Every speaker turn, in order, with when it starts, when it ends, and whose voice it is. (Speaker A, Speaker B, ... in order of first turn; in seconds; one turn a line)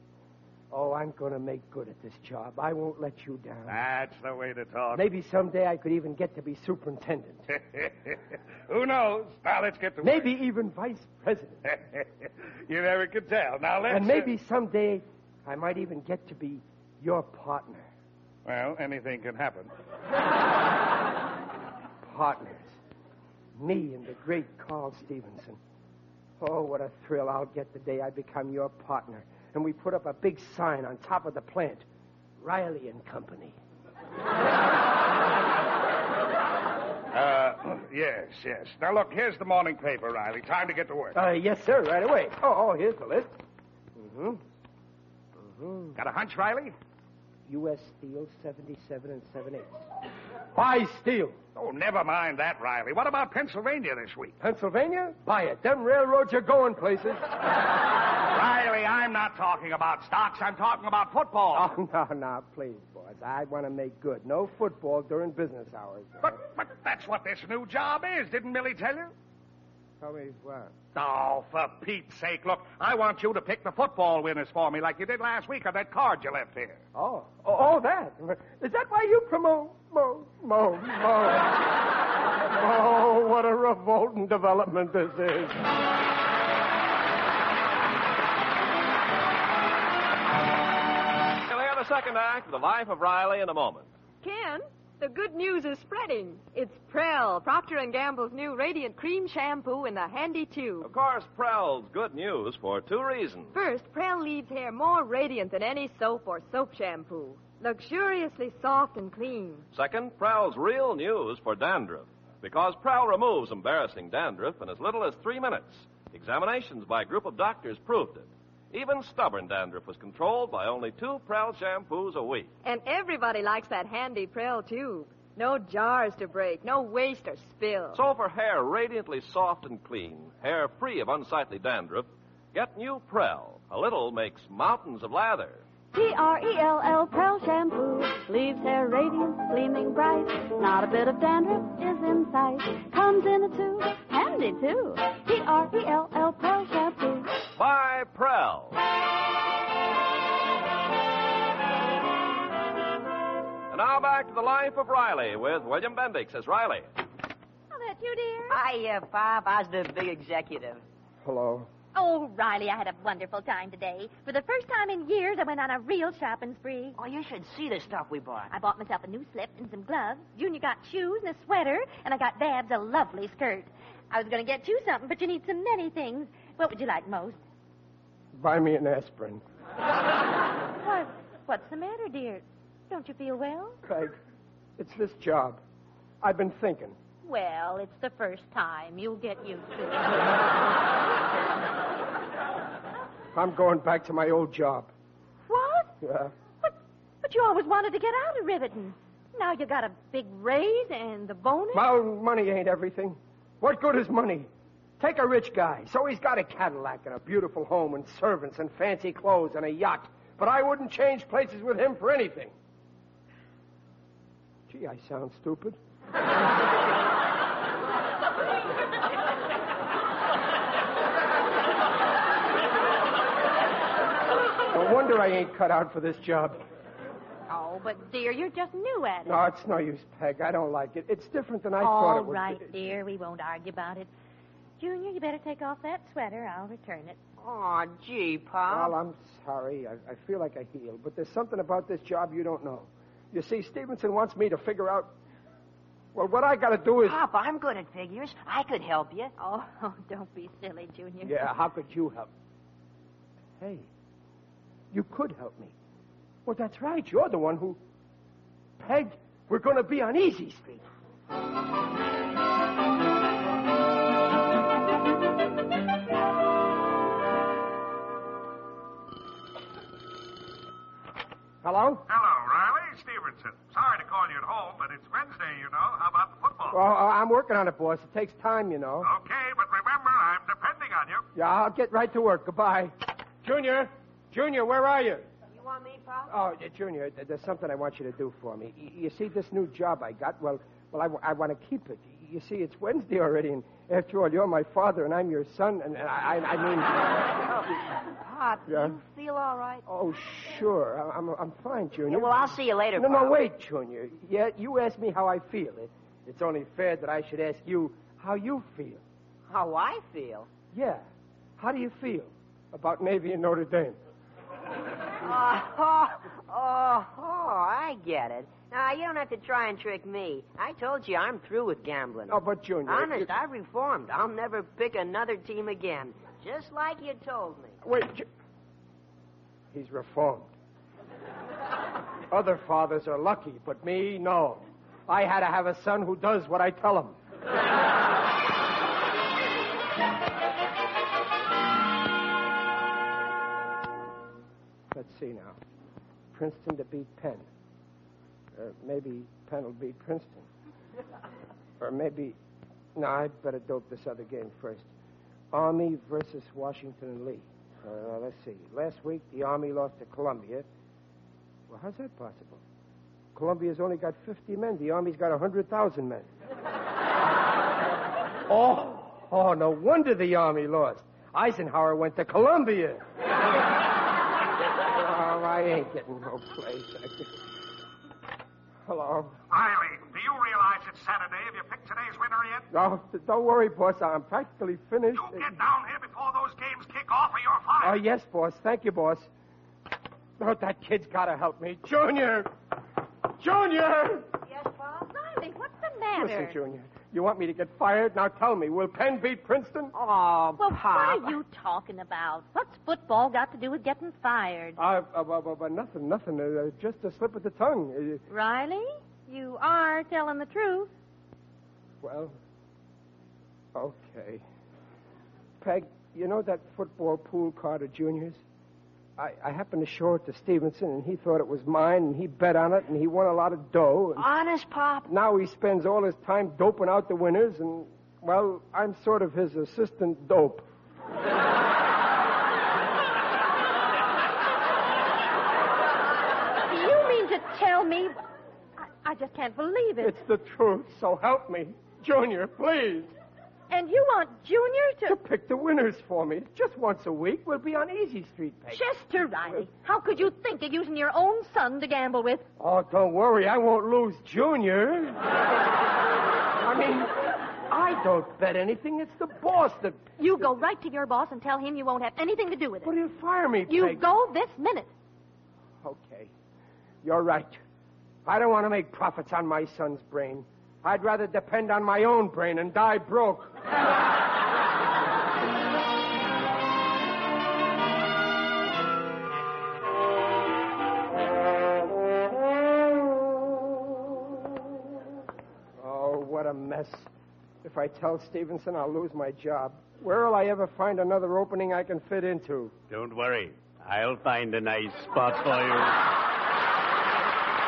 Speaker A: 0.7-3.8
Speaker B: 3.7-5.0
Speaker A: 4.9-7.5
Speaker B: 7.5-10.2
Speaker A: 10.0-11.6
Speaker B: 11.7-14.3
Speaker A: 13.9-17.9
Speaker B: 18.4-19.7
Speaker A: 22.0-22.8
Speaker A: 23.6-25.6
Speaker A: 26.4-31.8
Speaker A: 32.4-33.5
Speaker B: 37.1-41.1
Speaker A: 41.1-43.4
Speaker A: 44.0-44.4
Speaker A: 45.4-46.0
Speaker B: 46.0-46.7
Speaker A: 47.5-49.9
Speaker A: 50.5-51.4
Speaker B: 51.5-54.4
Speaker A: 54.4-57.3
Speaker B: 58.3-61.6
Speaker A: 61.5-66.4
Speaker B: 66.2-69.1
Speaker A: 70.0-70.8
Speaker B: 70.9-76.8
Speaker A: 76.9-81.6
Speaker A: 82.4-85.6
Speaker C: 91.5-93.8
Speaker D: 94.2-100.9
Speaker C: 100.8-103.5
Speaker D: 103.5-109.6
Speaker C: 109.7-122.5
Speaker D: 122.6-128.0
Speaker C: 127.9-135.6
Speaker E: 135.9-147.3
Speaker C: 147.6-148.7
Speaker C: 153.7-156.9
Speaker F: 157.7-158.6
Speaker G: 158.5-160.8
Speaker A: 161.2-161.7
Speaker F: 161.9-166.9
Speaker G: 166.9-168.5
Speaker F: 168.5-177.4
Speaker A: 178.3-179.4
Speaker F: 180.8-183.8
Speaker A: 183.8-184.1
Speaker A: 184.8-185.6
Speaker A: 186.2-187.0
Speaker F: 187.2-190.3
Speaker A: 193.3-194.9
Speaker F: 195.5-195.9
Speaker A: 196.0-196.3
Speaker F: 196.6-201.9
Speaker A: 201.7-212.5
Speaker A: 214.7-215.8
Speaker A: 224.7-226.6
Speaker F: 227.5-229.4
Speaker A: 229.2-232.7
Speaker F: 231.8-234.1
Speaker F: 234.8-237.2
Speaker G: 237.4-238.9
Speaker A: 238.7-245.1
Speaker A: 246.1-247.2
Speaker G: 247.0-249.3
Speaker F: 249.4-251.5
Speaker A: 251.2-252.3
Speaker A: 253.6-253.9
Speaker A: 254.9-255.7
Speaker A: 256.4-257.8
Speaker A: 258.8-260.8
Speaker A: 271.6-272.0
Speaker B: 272.1-276.8
Speaker A: 276.7-279.1
Speaker B: 279.0-281.2
Speaker A: 281.4-285.3
Speaker G: 285.5-286.3
Speaker A: 286.3-297.0
Speaker G: 297.5-299.8
Speaker A: 298.7-299.0
Speaker A: 299.9-309.0
Speaker G: 302.1-303.3
Speaker G: 309.5-310.5
Speaker A: 310.7-311.1
Speaker A: 311.6-314.0
Speaker G: 315.2-327.8
Speaker A: 322.3-323.3
Speaker A: 327.8-328.3
Speaker A: 329.7-330.5
Speaker A: 332.3-337.2
Speaker A: 344.9-345.6
Speaker A: 346.3-347.5
Speaker A: 348.5-350.5
Speaker A: 351.8-352.4
Speaker A: 352.9-354.9
Speaker A: 355.5-360.6
Speaker A: 361.7-362.6
Speaker A: 363.3-366.3
Speaker A: 368.5-373.0
Speaker A: 374.9-377.3
Speaker A: 378.8-379.4
Speaker B: 379.5-382.7
Speaker A: 382.7-385.6
Speaker B: 385.1-388.0
Speaker A: 387.8-389.3
Speaker A: 390.4-392.5
Speaker A: 393.4-394.3
Speaker G: 394.5-395.0
Speaker F: 395.0-396.6
Speaker A: 396.1-399.9
Speaker G: 399.9-401.4
Speaker F: 400.6-404.8
Speaker A: 404.8-408.2
Speaker F: 408.3-410.9
Speaker A: 412.0-412.4
Speaker A: 413.7-414.4
Speaker A: 415.6-418.4
Speaker A: 419.2-424.3
Speaker G: 424.1-425.1
Speaker A: 425.1-430.6
Speaker F: 436.6-438.1
Speaker F: 438.8-440.1
Speaker A: 440.0-443.1
Speaker F: 443.7-445.2
Speaker A: 445.1-448.8
Speaker F: 448.7-452.4
Speaker A: 452.6-455.2
Speaker A: 456.6-460.0
Speaker F: 460.2-462.9
Speaker A: 462.8-464.0
Speaker F: 463.7-464.9
Speaker A: 465.8-466.3
Speaker A: 467.0-467.6
Speaker A: 468.2-473.5
Speaker A: 485.8-487.1
Speaker A: 487.6-492.7
Speaker H: 492.9-496.0